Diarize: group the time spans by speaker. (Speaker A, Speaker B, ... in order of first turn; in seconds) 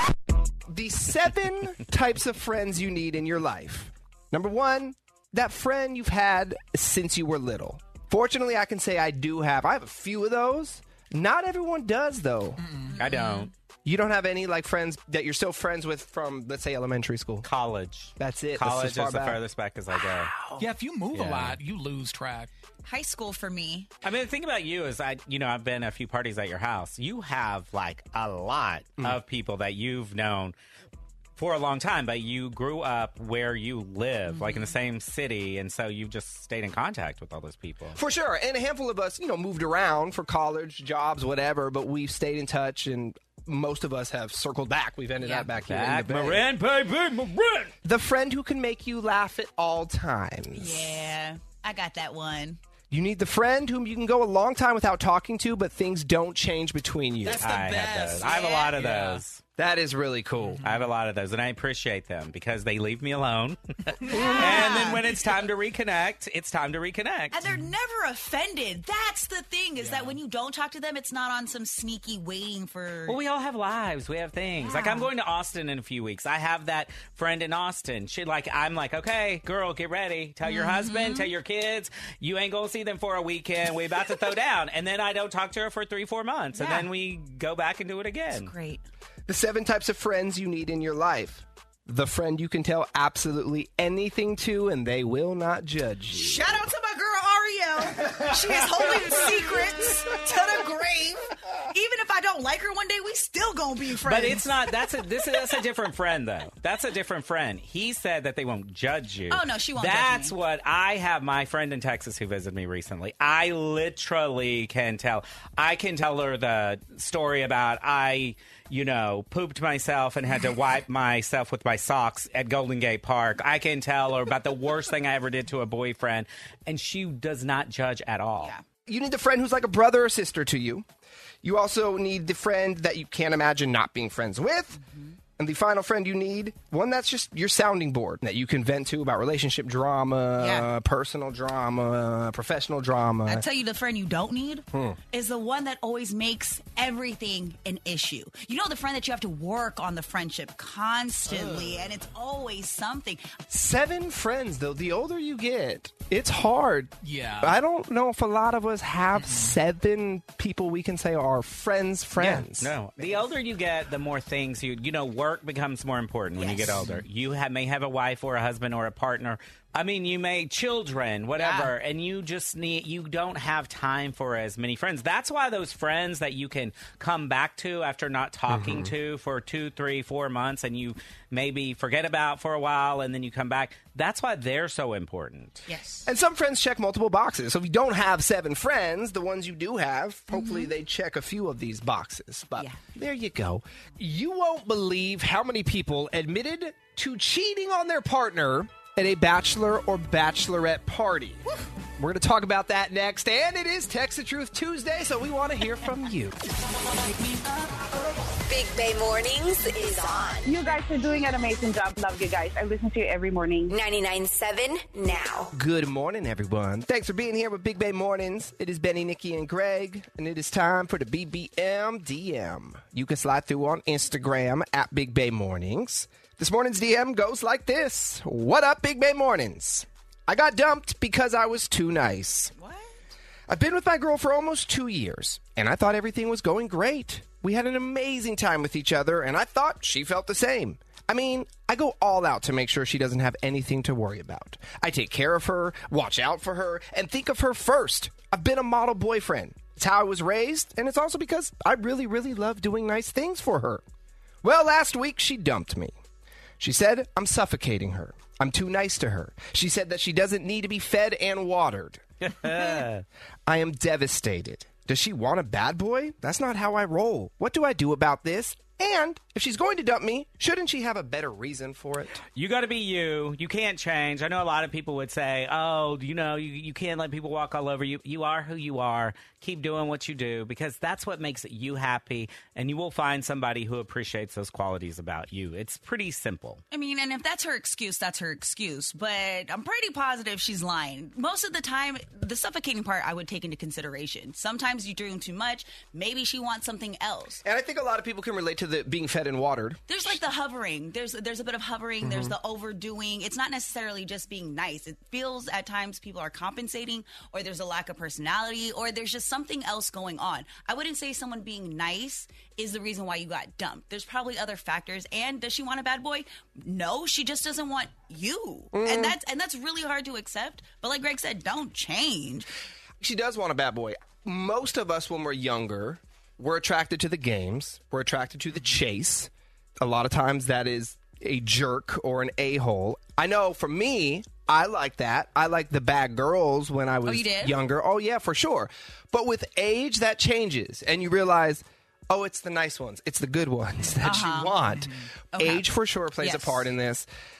Speaker A: 0.7-12.6, 13.8-17.5, 18.2-19.4, 37.9-46.4, 47.8-50.9, 52.9-57.5, 59.6-60.6, 89.3-96.4, 128.8-130.8, 131.4-134.8, 135.4-143.4, 144.7-145.0, 153.5-163.2, 178.5-178.9, 186.1-206.4, 215.5-232.5, 233.5-253.8, 254.4-255.9, 256.6-262.0, 263.5-272.2, 297.4-299.8, 302.0-302.3, 318.7-319.2, 323.0-347.1
Speaker B: 12.6-13.1, 20.6-22.5, 57.2-59.2, 60.4-60.8, 64.0-64.3, 69.8-70.2, 151.3-151.9, 157.0-157.5, 159.2-159.5
Speaker C: 12.9-13.5, 19.9-20.6, 22.8-23.9, 34.3-34.7, 45.2-45.5, 50.5-52.6, 58.2-59.0, 64.1-65.0, 67.3-73.2, 74.6-75.1, 80.4-81.3, 86.5-86.9, 88.3-88.8, 96.1-104.5, 109.3-110.3, 140.4-140.7, 143.2-153.3, 166.3-166.8, 171.4-171.7, 185.7-186.1, 190.3-190.7, 232.5-232.9, 286.7-297.4, 299.9-322.5, 337.1-337.6, 344.0-345.7, 346.2-346.6
Speaker D: 13.0-13.5, 17.4-20.4, 21.1-21.6, 24.0-30.5, 31.4-38.0, 45.6-47.7, 57.4-59.4, 60.6-63.6, 64.2-67.3, 73.1-88.5, 104.0-128.5, 162.2-185.7, 262.2-263.0, 272.4-286.6
Speaker E: 208.5-210.5, 213.7-215.5
Speaker F: 210.4-213.7